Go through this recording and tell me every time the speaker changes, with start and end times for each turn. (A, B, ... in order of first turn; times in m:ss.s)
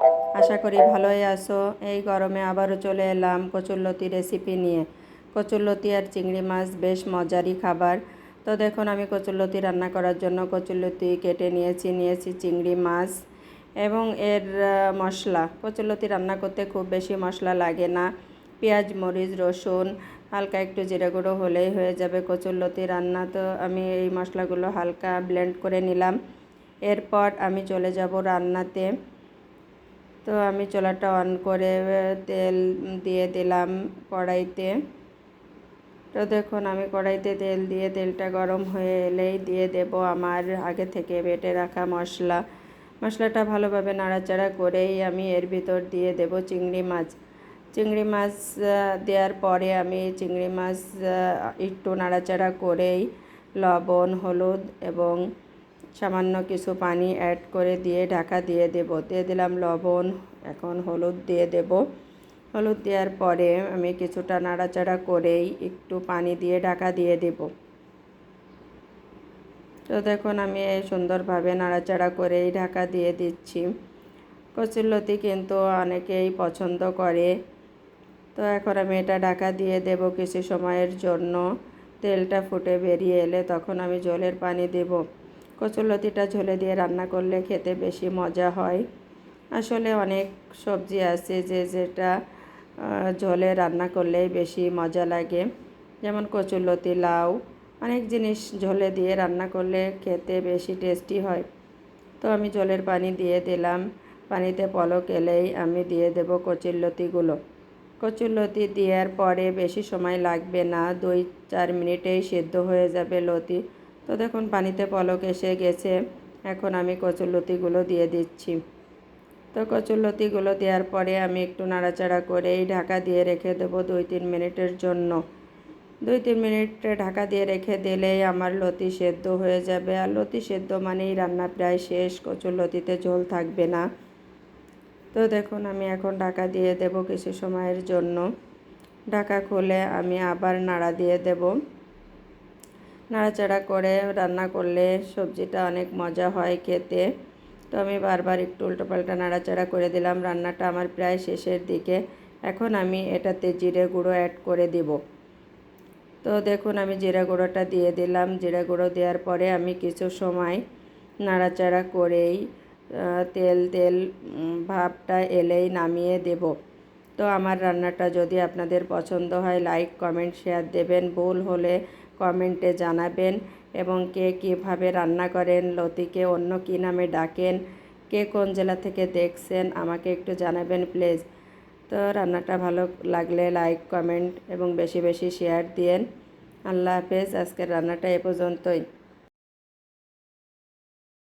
0:00.4-0:13.2 A
0:13.8-0:18.1 A
0:18.6-0:26.2 A
0:26.8-0:28.9 A
0:30.2-0:34.7 A
0:36.1-0:42.4 A
0:43.0-0:47.1 A
0:47.7-0:53.1 A
0:53.6-0:55.2 A
0:56.0-1:01.8 A
1:02.5-1:07.5 A
1:09.9-1:13.7 A
1:14.5-1:17.3 A
1:18.3-1:21.4 A
1:22.0-1:25.0 A
1:25.6-1:28.8 A
1:29.6-1:32.1 A
1:32.8-1:35.5 A
1:36.0-1:41.4 A
1:42.2-1:47.4 A
1:48.0-1:56.0 A
1:56.5-1:58.6 A
1:59.5-2:05.2 A
2:06.0-2:13.8 A
2:15.1-2:18.3 A
2:19.1-2:21.6 A
2:23.1-2:27.0 A
2:27.7-2:35.0 A
2:36.2-2:40.6 A
2:41.2-2:42.4 A
2:42.9-2:46.5 A
2:47.2-2:57.6 A
2:58.1-3:01.2 A
3:01.9-3:06.0 A
3:06.7-3:08.8 A